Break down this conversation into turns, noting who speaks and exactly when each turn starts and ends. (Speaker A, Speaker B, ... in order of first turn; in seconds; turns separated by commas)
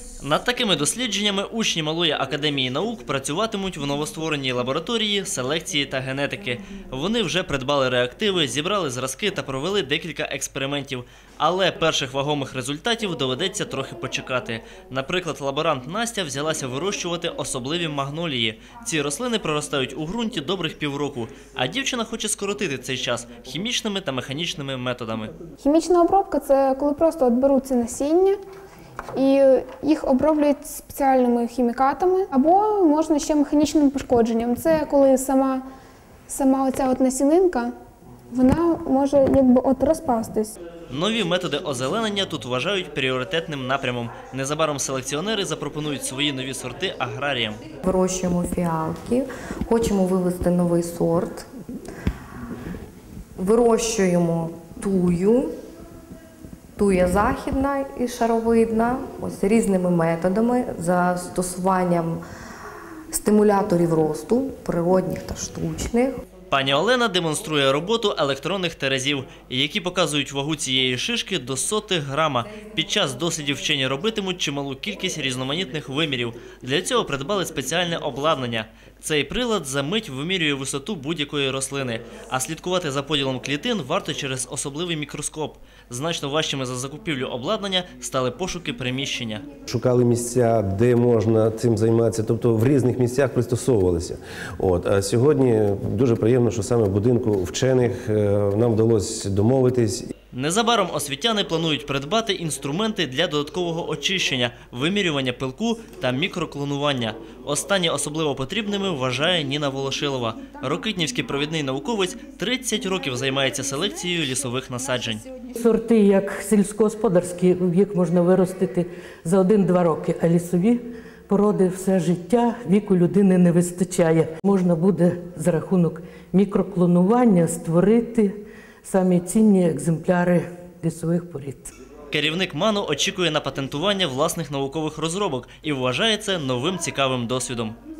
Speaker A: 0.2-25.3, Speaker B: 25.6-28.4, Speaker B: 29.1-35.6, Speaker B: 36.3-37.7, Speaker B: 38.3-40.5, Speaker A: 40.9-47.6, Speaker C: 47.8-51.5, Speaker C: 53.4-55.5, Speaker C: 56.8-62.2, Speaker C: 63.1-66.2, Speaker A: 66.5-89.4, Speaker D: 89.7-100.1, Speaker A: 100.3-115.2, Speaker E: 115.5-131.7, Speaker A: 132.1-137.8